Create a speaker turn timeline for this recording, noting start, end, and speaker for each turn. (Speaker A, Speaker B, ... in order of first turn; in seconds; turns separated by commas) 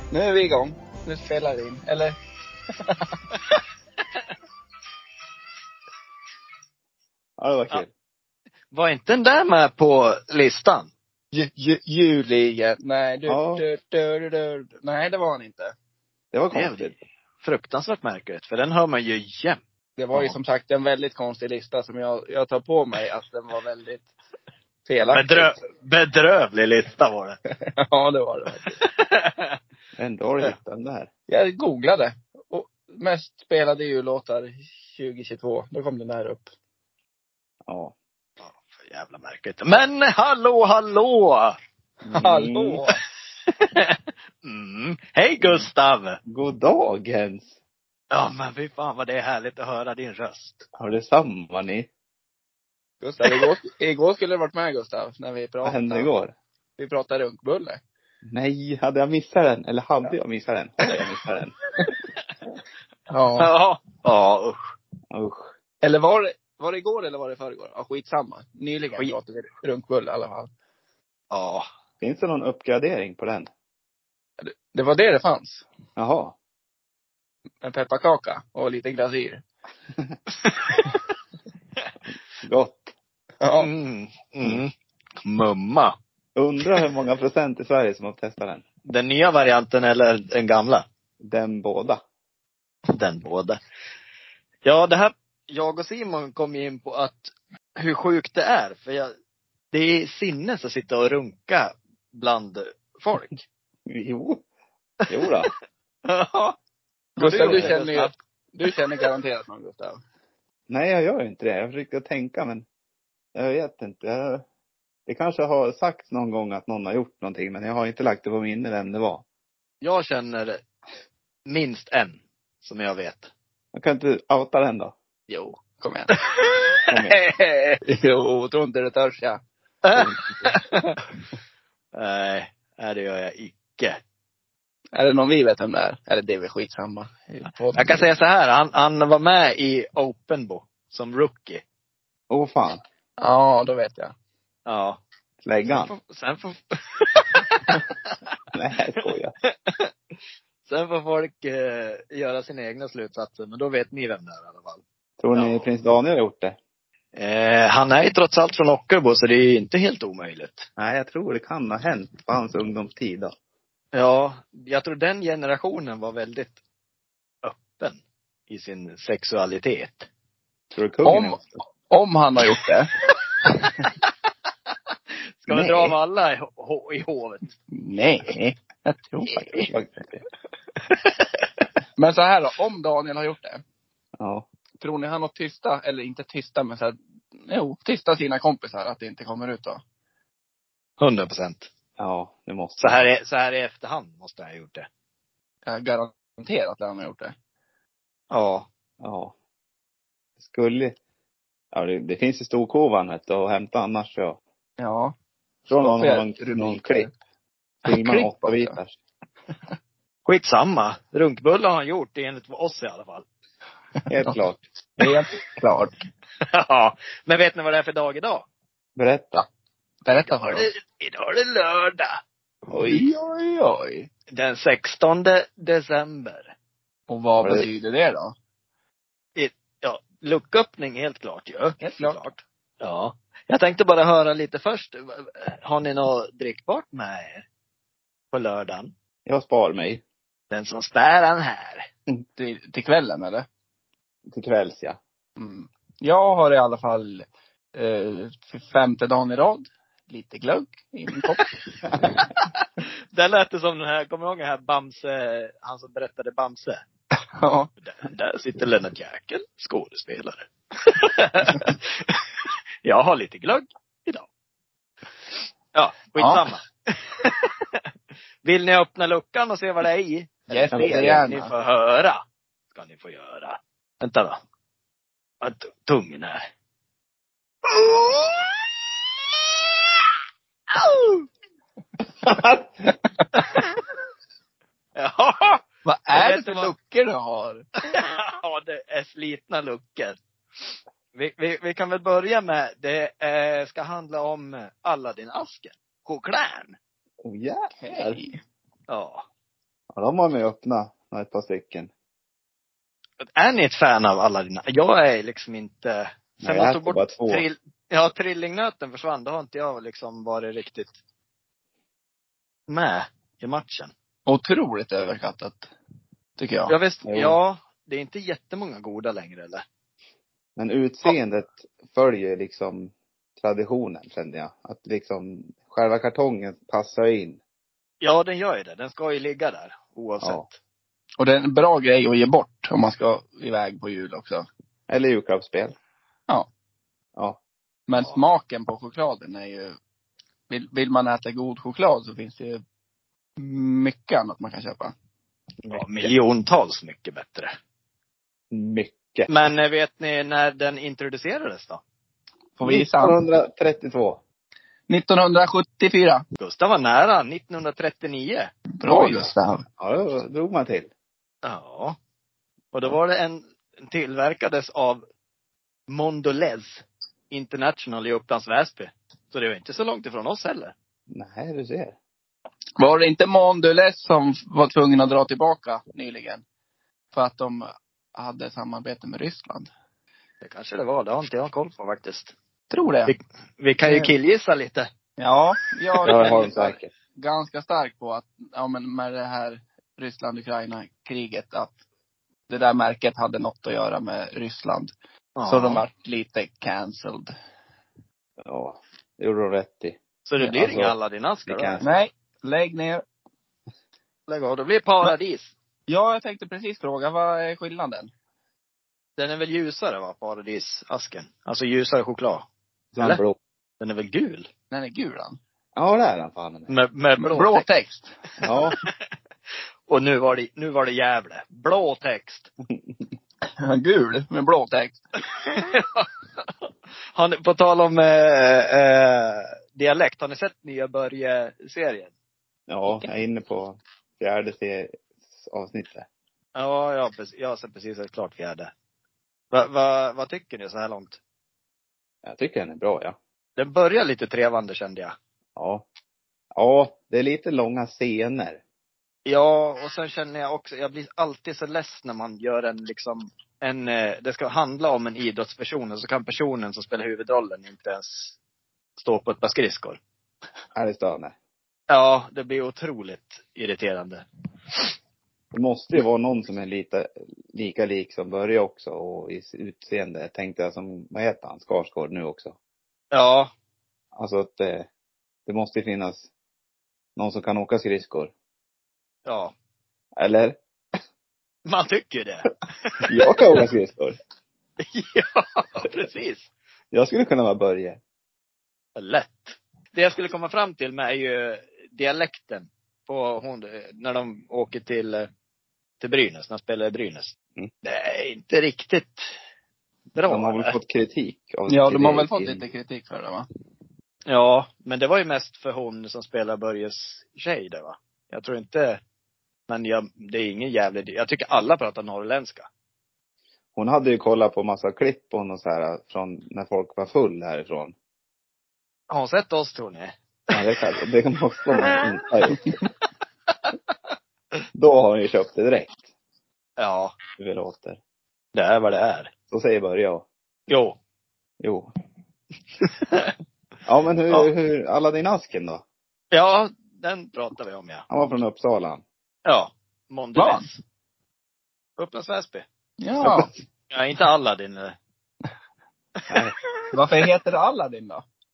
Speaker A: 0.1-2.1, Speaker B: 7.4-7.9, Speaker C: 8.7-10.9, Speaker A: 11.3-15.7, Speaker B: 13.3-13.7, Speaker B: 16.3-16.9, Speaker C: 16.5-16.9, Speaker C: 17.4-19.6, Speaker A: 20.0-24.1, Speaker A: 24.9-25.6, Speaker C: 25.1-27.4, Speaker A: 27.8-28.8, Speaker C: 28.7-29.6, Speaker B: 30.0-31.1, Speaker A: 31.3-36.5, Speaker B: 37.7-37.9, Speaker C: 38.4-41.5, Speaker B: 42.0-42.8, Speaker A: 42.1-43.0, Speaker C: 43.7-46.2, Speaker B: 45.4-45.7, Speaker B: 46.2-47.5, Speaker C: 48.1-50.6, Speaker B: 50.8-51.9, Speaker A: 53.0-56.1, Speaker B: 55.6-56.3, Speaker A: 56.8-57.8, Speaker B: 58.2-61.5, Speaker A: 63.1-63.5, Speaker C: 63.4-64.6, Speaker B: 65.1-65.5, Speaker A: 65.8-70.5, Speaker C: 71.3-71.7, Speaker B: 72.0-73.5, Speaker A: 74.4-75.6, Speaker B: 76.0-76.3, Speaker A: 77.6-79.4, Speaker C: 80.4-80.9, Speaker B: 82.4-82.9, Speaker A: 83.4-83.7, Speaker C: 83.6-84.7, Speaker C: 85.2-85.9, Speaker B: 86.3-88.6, Speaker C: 88.9-90.8, Speaker B: 91.2-92.0, Speaker C: 93.0-93.6, Speaker C: 94.6-99.1, Speaker C: 99.7-103.4, Speaker B: 103.9-104.4, Speaker B: 105.1-105.5, Speaker C: 106.1-106.5, Speaker C: 107.2-108.1, Speaker A: 107.2-110.0, Speaker B: 107.2-107.8, Speaker B: 110.7-112.6, Speaker B: 113.3-114.4, Speaker B: 115.1-119.2, Speaker C: 119.8-120.6, Speaker C: 121.5-123.3, Speaker B: 123.7-124.9, Speaker A: 125.3-126.1, Speaker B: 126.9-127.2, Speaker A: 127.1-129.4, Speaker C: 129.8-130.9, Speaker C: 131.9-134.0, Speaker A: 134.9-138.0, Speaker C: 137.7-141.6, Speaker B: 142.3-142.8, Speaker A: 143.2-144.1, Speaker C: 144.7-145.0, Speaker B: 145.4-145.9, Speaker C: 145.7-147.8, Speaker B: 148.5-149.3, Speaker C: 150.7-154.8, Speaker B: 155.2-156.6, Speaker C: 155.3-155.7, Speaker C: 157.2-160.7, Speaker B: 160.8-163.3, Speaker C: 163.9-166.6, Speaker C: 167.4-170.1, Speaker B: 170.7-171.6, Speaker A: 171.0-172.9, Speaker A: 173.4-173.7, Speaker C: 175.4-177.5, Speaker A: 177.7-179.7, Speaker B: 179.7-180.2, Speaker C: 180.9-181.2, Speaker A: 182.0-183.6, Speaker B: 184.2-184.4, Speaker A: 184.8-189.8, Speaker C: 191.0-191.7, Speaker B: 192.0-193.0, Speaker C: 192.8-194.8, Speaker A: 195.7-197.3, Speaker C: 198.3-198.7, Speaker B: 199.0-199.3, Speaker B: 200.4-200.9, Speaker B: 201.7-204.4, Speaker A: 204.8-205.1, Speaker B: 205.7-207.1, Speaker A: 205.7-207.1, Speaker A: 207.8-208.8, Speaker B: 207.8-208.9, Speaker C: 210.2-213.2, Speaker B: 214.1-215.1, Speaker A: 215.0-215.9, Speaker C: 216.5-218.4, Speaker B: 218.9-219.5, Speaker A: 220.0-220.7, Speaker C: 220.3-222.2, Speaker A: 222.7-224.1, Speaker C: 224.3-226.5, Speaker A: 227.1-228.3, Speaker B: 227.4-227.7, Speaker C: 229.3-237.4, Speaker A: 231.8-232.2, Speaker C: 238.3-238.9, Speaker B: 239.2-240.0, Speaker C: 240.5-241.8, Speaker A: 242.3-243.4, Speaker B: 244.3-245.0, Speaker A: 245.4-251.5, Speaker C: 253.1-256.8, Speaker A: 257.4-257.7, Speaker C: 257.8-264.2, Speaker C: 265.7-267.8, Speaker A: 266.1-266.5, Speaker C: 268.4-272.2, Speaker A: 270.5-271.5, Speaker B: 270.7-271.4, Speaker C: 272.7-274.4, Speaker C: 275.4-276.4, Speaker C: 277.7-278.6, Speaker C: 280.7-281.3, Speaker B: 282.3-282.6, Speaker C: 283.4-283.6, Speaker C: 284.9-286.7, Speaker A: 285.8-287.6, Speaker C: 287.9-296.8, Speaker B: 297.2-297.7, Speaker A: 297.8-298.4, Speaker C: 298.9-299.2, Speaker B: 299.9-301.9, Speaker C: 303.4-310.9, Speaker B: 306.4-307.5, Speaker C: 312.7-313.9, Speaker A: 314.2-315.7, Speaker A: 316.4-316.8, Speaker C: 316.7-319.6, Speaker B: 317.0-317.4, Speaker B: 320.6-327.4, Speaker C: 328.0-330.6, Speaker B: 330.2-330.4, Speaker A: 331.2-334.5, Speaker B: 334.9-335.7, Speaker A: 337.9-339.7, Speaker A: 340.5-342.6, Speaker A: 343.4-344.9, Speaker C: 345.6-347.5, Speaker B: 348.5-349.3, Speaker C: 349.3-351.8, Speaker A: 352.6-353.2, Speaker B: 352.6-354.2, Speaker A: 354.9-356.2, Speaker C: 356.4-359.3, Speaker A: 358.8-359.6, Speaker B: 359.8-360.9, Speaker C: 361.4-361.9, Speaker C: 362.7-365.0, Speaker C: 365.9-370.7, Speaker B: 371.1-371.9, Speaker A: 372.8-376.4, Speaker A: 377.1-379.7, Speaker C: 380.4-382.3, Speaker A: 382.7-383.1, Speaker C: 383.1-384.9, Speaker A: 383.8-384.1, Speaker A: 385.2-391.7, Speaker C: 386.0-386.4, Speaker B: 386.1-386.9, Speaker A: 392.5-397.3, Speaker C: 395.4-395.8, Speaker B: 398.4-400.0, Speaker C: 400.3-401.8, Speaker B: 400.5-401.9, Speaker A: 401.8-403.0, Speaker C: 404.3-405.5, Speaker A: 405.9-408.1, Speaker C: 409.2-412.4, Speaker B: 412.9-413.4, Speaker C: 413.8-414.5, Speaker A: 414.7-415.4, Speaker B: 415.8-416.8, Speaker C: 416.7-417.6, Speaker A: 417.2-418.1, Speaker B: 418.4-418.8, Speaker C: 419.9-422.5, Speaker B: 422.7-423.0, Speaker A: 423.6-425.0, Speaker C: 425.4-426.1, Speaker C: 427.1-432.1, Speaker B: 432.7-436.1, Speaker C: 436.6-438.7, Speaker C: 439.5-441.2, Speaker B: 442.2-443.2, Speaker C: 443.6-445.1, Speaker B: 445.6-445.9, Speaker B: 446.6-448.6, Speaker C: 449.2-458.4, Speaker C: 459.0-460.0, Speaker B: 460.7-461.3, Speaker C: 461.9-464.2, Speaker B: 465.5-472.6, Speaker C: 473.1-473.5, Speaker B: 474.1-474.9, Speaker B: 475.5-476.3, Speaker B: 477.1-478.3, Speaker C: 479.2-479.5, Speaker B: 480.2-480.5, Speaker C: 481.7-483.3, Speaker B: 483.1-484.1, Speaker C: 484.9-486.5, Speaker B: 486.9-488.0, Speaker C: 488.9-495.3, Speaker C: 496.0-499.3, Speaker C: 500.1-500.8, Speaker B: 500.3-502.6, Speaker A: 501.7-503.4, Speaker C: 504.3-509.0, Speaker C: 509.7-512.7, Speaker B: 513.7-517.9, Speaker C: 519.1-520.2, Speaker B: 520.5-522.8, Speaker C: 521.8-522.5, Speaker B: 524.7-526.1, Speaker C: 526.8-527.1, Speaker B: 527.4-528.0, Speaker C: 528.5-529.3, Speaker B: 529.5-530.3, Speaker C: 530.7-531.0, Speaker B: 531.6-531.9, Speaker C: 532.8-533.3, Speaker B: 533.9-535.8, Speaker C: 536.3-538.0, Speaker B: 538.1-539.0, Speaker C: 539.5-540.8, Speaker A: 540.4-540.6, Speaker C: 542.0-542.6, Speaker A: 543.0-543.5, Speaker B: 543.2-543.5, Speaker C: 543.9-544.9, Speaker B: 546.3-546.5, Speaker A: 546.9-548.2